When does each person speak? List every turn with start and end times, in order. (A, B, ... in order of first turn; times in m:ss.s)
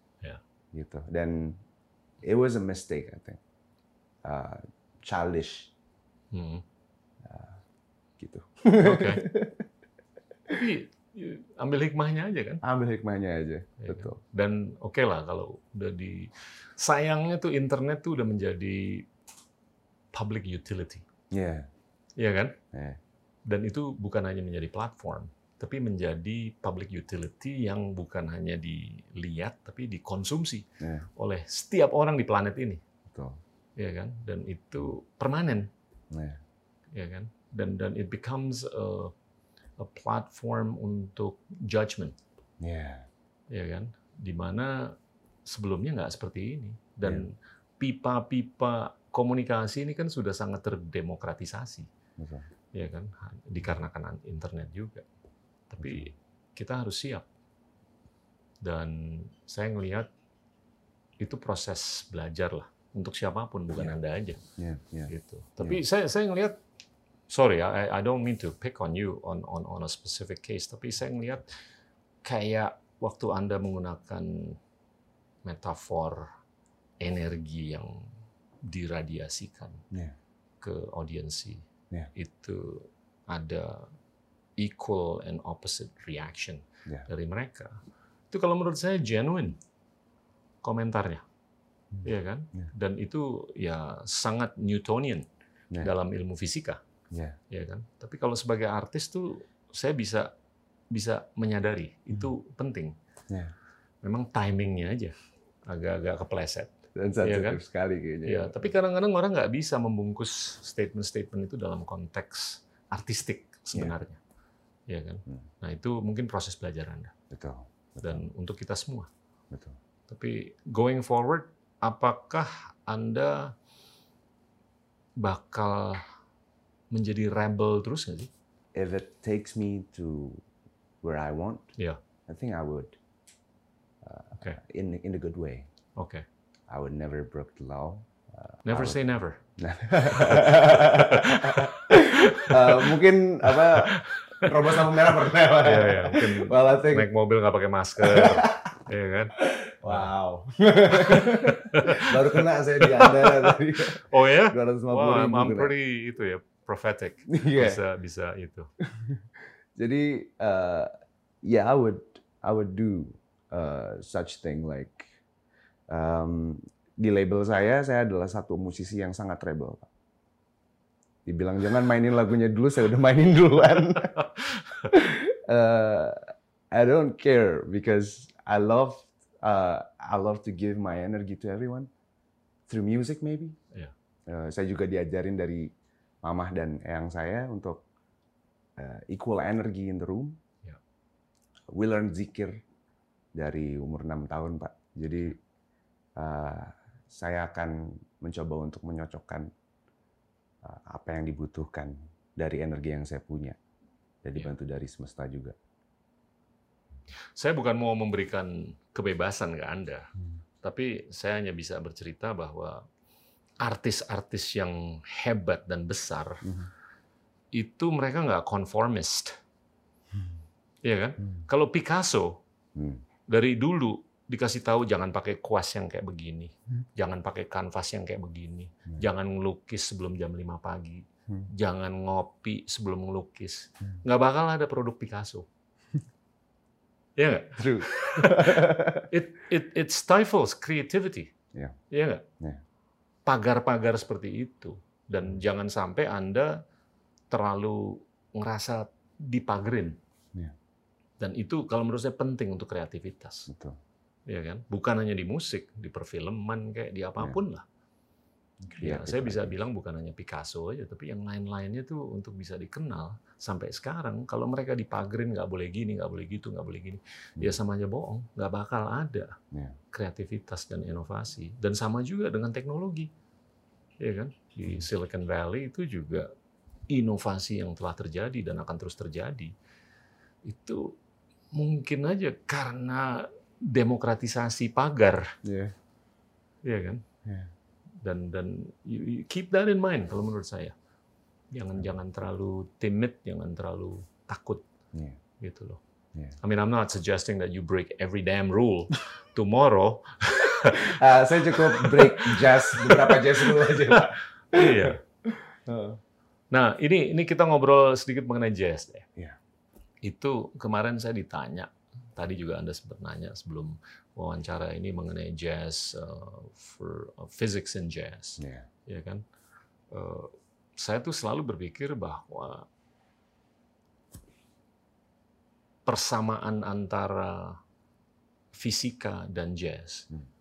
0:00.7-0:01.6 A
0:02.2-0:03.4 A
0:04.2-0:05.7 A
0:06.3-0:06.6 B
0:07.2-0:07.6 A
0:08.2-0:09.7 A
0:08.8-0:09.3 B
0:10.5-0:12.6 B
0:12.6-0:14.2 A
0:13.8-0:19.1 B
0:20.1-0:21.0 B
0:21.3-0:21.7 A
0:22.2-0:22.6 B
0:22.7-0:23.0 A
0:23.5-0:32.8 B
0:30.8-0:31.1 A
0:33.1-0:33.4 A
0:33.8-0:35.7 B
0:36.1-0:36.4 A
0:36.9-0:39.1 B
0:39.8-0:42.2 B
0:42.6-0:43.1 A
0:43.5-0:51.9 B
0:52.2-0:52.5 A
0:52.7-0:55.0 B
0:55.7-0:57.3 B
0:55.8-0:56.1 A
0:58.6-1:00.1 B
1:01.2-1:04.4 B
1:04.6-1:05.8 A
1:05.1-1:06.6 B
1:07.3-1:11.5 B
1:12.2-1:14.6 B
1:15.4-1:16.3 B
1:17.0-1:18.1 B
1:18.6-1:19.8 B
1:20.6-1:23.9 B
1:24.6-1:27.8 B
1:28.3-1:29.6 B
1:30.6-1:31.2 B
1:31.9-1:32.7 A
1:32.0-1:35.3 B
1:35.8-1:36.8 B
1:37.1-1:37.4 A
1:37.5-1:40.3 B
1:40.9-1:43.0 B
1:44.0-1:45.1 B
1:45.7-1:47.6 B
1:47.0-1:48.7 A
1:48.2-1:54.2 B
1:54.9-1:57.1 B
1:57.3-1:58.3 A
1:58.0-1:59.1 B
1:59.5-1:59.8 A
2:00.1-2:03.6 B
2:05.2-2:06.0 B
2:06.9-2:08.3 B
2:08.7-2:10.4 A
2:11.0-2:11.7 A
2:12.3-2:13.0 A
2:14.0-2:15.7 A
2:16.0-2:16.2 B
2:16.7-2:19.0 A
2:18.6-2:19.4 B
2:19.6-2:27.1 A
2:20.1-2:30.1 B
2:28.0-2:28.7 A
2:29.4-2:35.7 A
2:30.9-2:38.7 B
2:37.3-2:37.8 A
2:38.8-2:39.2 A
2:39.8-2:40.9 A
2:41.4-2:45.1 A
2:45.9-2:49.9 A
2:51.3-2:54.3 A
2:54.2-2:54.9 B
2:54.8-3:01.9 A
3:02.7-3:03.6 A
3:04.3-3:05.7 A
3:06.2-3:07.8 A
3:08.8-3:10.4 A
3:11.7-3:12.6 A
3:13.3-3:15.4 A
3:16.2-3:19.5 A
3:20.6-3:23.6 A
3:24.2-3:25.6 A
3:27.4-3:32.9 B
3:33.6-3:36.6 B
3:37.5-3:39.4 B
3:40.8-3:42.4 B
3:42.8-3:43.0 A
3:43.3-3:55.5 B
3:57.2-4:01.3 B
3:57.6-3:59.1 A
4:01.9-4:02.3 B
4:03.3-4:06.6 B
4:07.3-4:10.0 B
4:11.2-4:13.5 B
4:13.5-4:13.8 A
4:14.3-4:17.6 B
4:18.7-4:19.6 A
4:18.8-4:29.4 B
4:29.5-4:29.8 A
4:29.9-4:33.1 B
4:34.0-4:36.3 B
4:36.9-4:39.5 B
4:40.4-4:41.0 B
4:41.5-4:45.3 B
4:45.4-4:45.8 A
4:46.6-4:47.0 B
4:47.2-4:47.5 A
4:48.0-4:50.7 B
4:51.5-4:54.6 B
4:54.9-4:55.2 A
4:55.4-4:55.8 B
4:56.4-5:05.0 B
5:00.8-5:06.0 A
5:06.5-5:09.1 B
5:10.0-5:19.2 B
5:18.4-5:18.7 A
5:19.9-5:22.7 B
5:25.9-5:27.6 B
5:28.5-5:30.1 B